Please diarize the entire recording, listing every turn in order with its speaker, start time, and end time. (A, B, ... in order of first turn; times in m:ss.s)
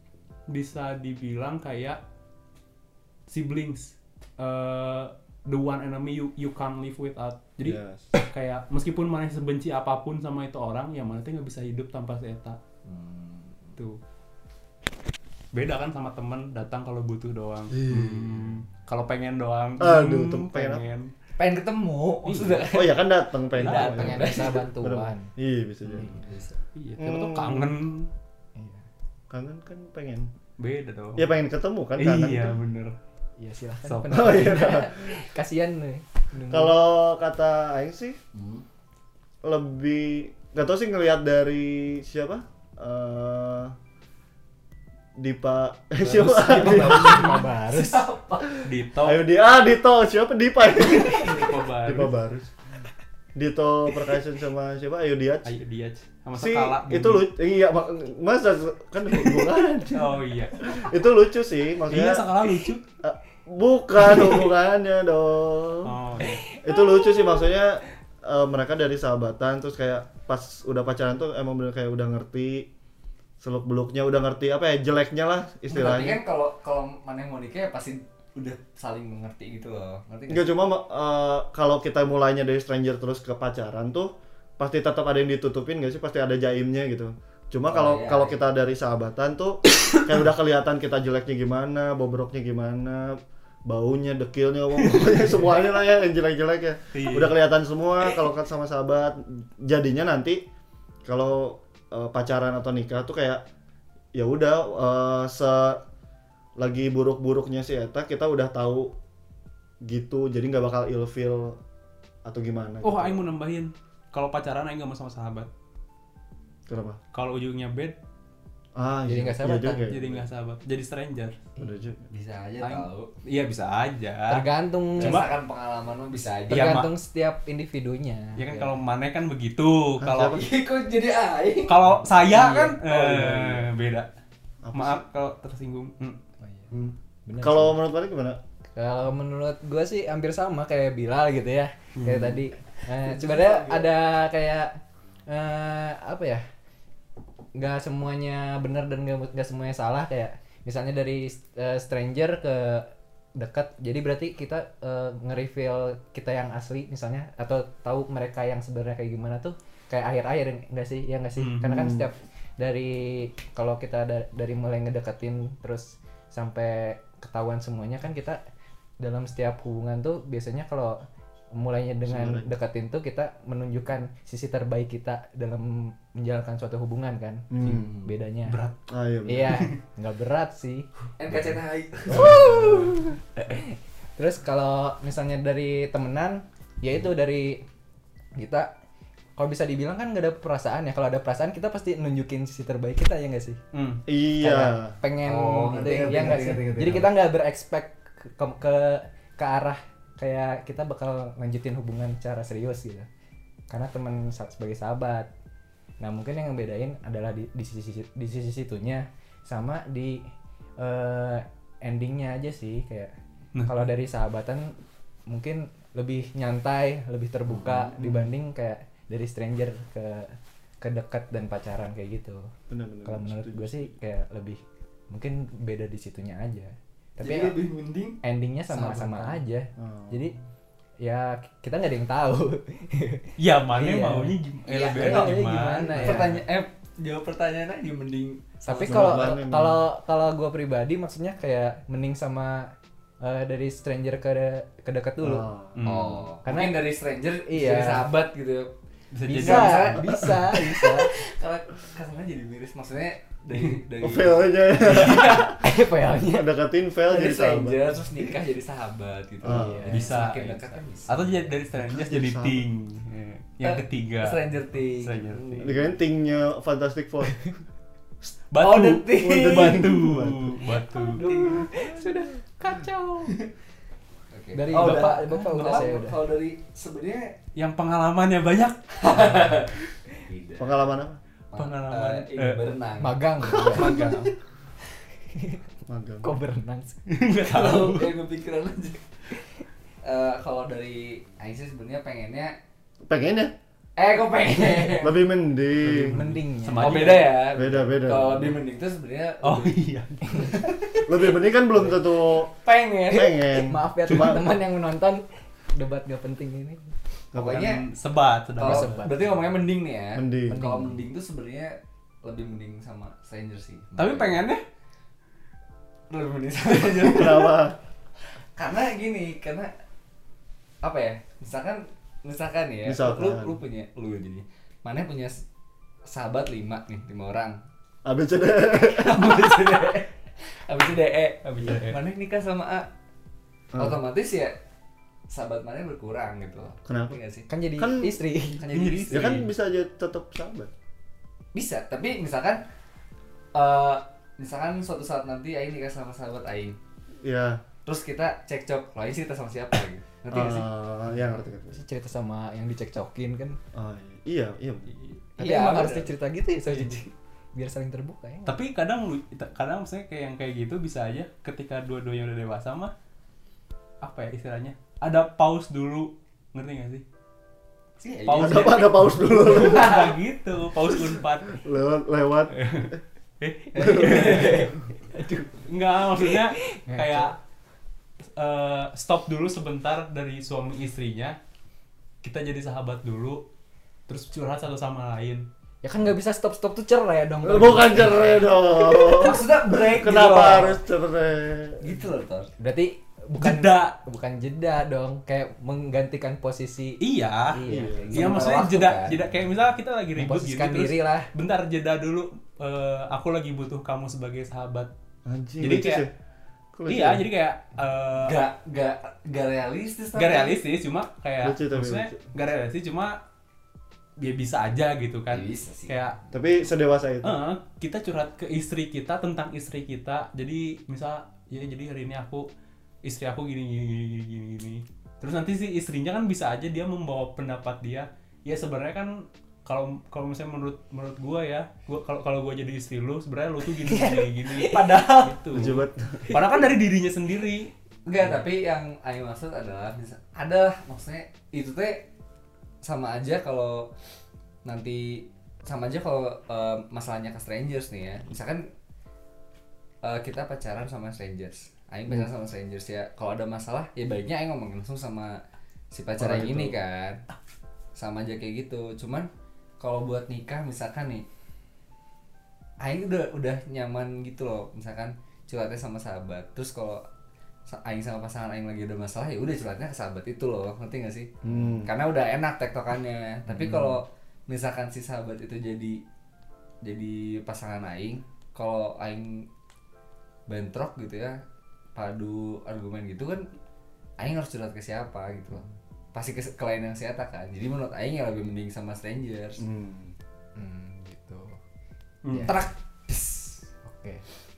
0:00.5-0:02.0 A
0:03.3-0:12.6 A
0:07.6-0:08.1 B
0:12.8-0:13.8 C
0:15.5-0:21.1 A
0:17.7-0:18.5 B
0:19.8-0:20.9 B
0:21.4-0:23.0 C
0:22.2-0:22.7 A
0:22.7-0:26.2 B
0:23.5-0:24.0 A
0:23.6-0:24.6 C
0:23.7-0:25.3 D
0:25.9-0:26.5 D
0:26.0-0:26.5 C
0:26.7-0:28.1 A
0:27.0-0:27.7 B
0:28.6-0:28.8 D
0:29.3-0:30.3 B
0:30.6-0:31.3 A
0:31.2-0:32.6 B
0:32.0-0:33.0 A
0:33.4-0:36.8 D
0:33.8-0:34.6 A
0:34.1-0:35.2 B
0:36.5-0:38.2 B
0:38.3-0:38.6 C
0:39.4-0:43.8 B
0:45.2-0:47.3 B
0:46.1-0:47.4 A
0:46.3-0:48.1 D
0:46.5-0:48.6 C
0:48.6-0:49.2 A
0:49.0-0:52.5 B
0:50.9-0:52.1 A
0:53.4-0:55.5 B
0:55.4-0:57.3 A
0:56.4-1:00.1 B
0:59.9-1:00.6 A
1:00.6-1:02.2 B
1:01.9-1:02.8 A
1:03.0-1:05.9 B
1:05.8-1:06.4 A
1:06.4-1:07.3 D
1:06.6-1:12.7 B
1:13.4-1:16.2 B
1:15.7-1:20.5 C
1:20.3-1:40.4 B
1:27.7-1:28.4 C
1:36.9-1:37.3 A
1:41.1-1:43.4 B
1:44.1-1:45.8 B
1:46.6-1:48.9 B
1:49.8-1:51.6 B
1:52.3-1:53.3 B
1:52.8-1:55.5 A
1:56.7-1:57.0 B
1:57.1-1:58.0 A
1:58.8-2:00.2 B
1:59.1-1:59.9 D
1:59.8-2:01.4 A
2:01.6-2:02.1 B
2:02.1-2:03.1 C
2:02.6-2:04.5 A
2:04.3-2:05.2 D
2:05.0-2:06.8 C
2:05.0-2:05.3 A
2:06.5-2:06.9 A
2:06.5-2:08.7 D
2:08.4-2:10.4 A
2:10.0-2:10.4 B
2:10.3-2:11.8 C
2:11.7-2:14.1 A
2:12.0-2:12.8 D
2:12.9-2:13.5 B
2:14.6-2:15.0 B
2:14.7-2:16.2 A
2:16.4-2:16.7 D
2:16.8-2:18.4 B
2:17.3-2:17.8 D
2:18.8-2:26.4 D
2:22.0-2:22.4 A
2:23.0-2:23.9 C
2:27.6-2:48.4 D
2:41.4-2:41.9 A
2:41.7-2:42.1 B
2:49.0-2:51.0 D
2:51.5-2:58.6 D
2:52.1-2:52.5 B
2:57.5-2:57.9 B
2:57.7-2:58.1 C
2:58.5-2:58.8 A
2:58.9-2:59.7 B
2:59.3-3:00.9 D
2:59.4-2:59.7 A
3:01.2-3:02.8 C
3:02.1-3:07.6 D
3:08.4-3:08.7 D
3:09.4-3:13.6 D
3:13.7-3:14.0 A
3:14.1-3:15.0 B
3:14.4-3:23.1 D
3:15.2-3:17.1 C
3:23.7-3:25.3 D
3:26.0-3:33.1 D
3:33.6-3:33.9 A
3:33.6-3:34.8 D
3:35.3-3:42.5 D
3:42.7-3:44.0 B
3:43.0-3:47.6 D
3:47.2-3:48.2 C
3:48.2-3:50.4 D
3:48.7-3:49.3 C
3:49.8-3:50.4 B
3:51.0-3:56.4 D
3:53.4-3:56.3 A
3:54.7-3:59.3 C
3:58.6-4:05.5 D
3:58.8-3:59.8 B
4:05.2-4:05.8 B
4:05.8-4:06.3 A
4:05.9-4:08.7 C
4:06.4-4:06.9 D
4:07.5-4:08.0 D
4:09.1-4:10.4 A
4:09.3-4:11.1 D
4:09.3-4:15.4 C
4:14.0-4:18.0 B
4:14.8-4:15.5 A
4:15.0-4:16.5 D
4:17.0-4:21.6 C
4:19.4-4:20.1 B
4:19.5-4:19.9 D
4:19.9-4:25.7 A
4:21.8-4:22.6 B
4:23.6-4:25.9 C
4:25.6-4:27.5 B
4:28.5-4:31.2 A
4:28.6-4:29.9 C
4:29.2-4:30.6 B
4:30.7-4:33.4 D
4:31.2-4:31.7 C
4:34.3-4:37.4 C
4:34.5-4:36.2 D
4:34.7-4:35.1 A
4:37.6-4:39.7 A
4:39.0-4:40.9 C
4:40.6-4:41.2 B
4:41.5-4:44.2 C
4:41.6-4:42.8 A
4:43.0-4:44.3 D
4:43.6-4:44.3 A
4:45.2-4:45.6 D
4:45.9-4:46.3 B
4:46.2-4:47.0 D
4:47.1-4:48.2 A
4:47.4-4:49.4 C
4:50.0-4:52.6 C
4:53.1-4:53.5 B
4:54.0-4:55.2 C
4:54.9-4:56.2 B
4:55.8-4:57.5 A
4:56.0-4:57.2 D
4:56.8-5:03.4 C
4:57.5-4:58.6 B
4:59.4-5:00.6 A
5:01.0-5:02.5 B
5:03.1-5:04.5 B
5:03.2-5:07.0 D
5:07.3-5:07.8 C
5:07.4-5:09.1 A
5:08.6-5:14.4 C
5:08.6-5:09.4 D
5:10.2-5:10.6 B
5:10.5-5:11.0 D
5:14.0-5:14.6 A
5:16.1-5:17.7 C
5:17.0-5:17.8 B
5:18.6-5:19.7 C
5:20.8-5:25.4 C
5:22.8-5:23.6 B
5:26.1-5:27.6 C
5:28.0-5:29.4 B
5:28.7-5:32.9 C
5:31.4-5:32.0 A
5:33.8-5:34.6 C
5:35.3-5:37.5 C
5:36.9-5:37.2 B
5:37.5-5:38.6 D
5:37.8-5:38.2 B
5:38.6-5:39.4 C
5:38.7-5:39.5 A
5:39.1-5:40.7 B
5:41.5-5:42.6 C
5:43.5-5:46.8 C
5:47.2-5:47.6 B
5:47.8-5:50.7 C
5:50.3-5:51.8 B
5:51.7-5:53.6 D
5:53.7-5:54.9 B
5:55.4-5:56.1 C
5:55.4-5:58.5 D
5:56.7-5:57.0 A
5:58.5-6:02.9 A
6:04.0-6:07.0 A
6:08.0-6:10.2 C
6:08.2-6:11.6 A
6:08.4-6:10.0 B
6:11.5-6:13.0 B
6:12.5-6:14.7 A
6:13.7-6:14.8 C
6:13.8-6:14.6 B
6:15.0-6:15.6 D
6:15.6-6:17.4 A
6:16.2-6:17.3 D
6:18.4-6:21.4 A
6:22.2-6:23.4 A
6:24.1-6:25.5 A
6:25.8-6:28.8 D
6:27.4-6:31.9 B
6:29.0-6:30.8 C
6:31.8-6:32.5 C
6:32.6-6:38.6 D
6:33.4-6:34.0 A
6:37.0-6:37.6 A
6:37.7-6:38.4 B
6:38.1-6:44.9 A
6:38.1-6:39.2 C
6:40.2-6:41.3 D
6:45.3-6:46.1 B
6:45.6-6:46.1 A
6:46.7-6:47.3 B
6:46.9-6:48.4 A
6:48.2-6:50.6 C
6:50.2-6:53.2 A
6:51.4-6:52.2 B
6:54.2-6:56.2 A
6:55.3-6:56.4 C
6:56.3-6:57.4 B
6:57.2-7:02.5 A
7:03.0-7:17.7 A
7:13.7-7:14.9 D
7:14.6-7:15.4 C
7:15.5-7:16.4 B
7:18.1-7:22.0 C
7:22.8-7:23.9 C
7:24.6-7:28.7 C
7:30.0-7:37.2 C
7:36.2-7:36.8 B
7:38.0-7:41.3 C
7:42.8-7:47.0 C
7:47.7-7:56.0 C
7:51.4-7:51.9 B
7:53.6-7:53.8 B
7:56.8-7:59.5 C
8:00.5-8:01.4 C
8:02.0-8:03.5 C
8:04.2-8:09.6 C
8:09.6-8:10.2 B
8:10.6-8:11.6 D
8:12.2-8:12.6 A
8:12.3-8:12.6 D
8:12.5-8:13.6 C
8:13.8-8:14.2 D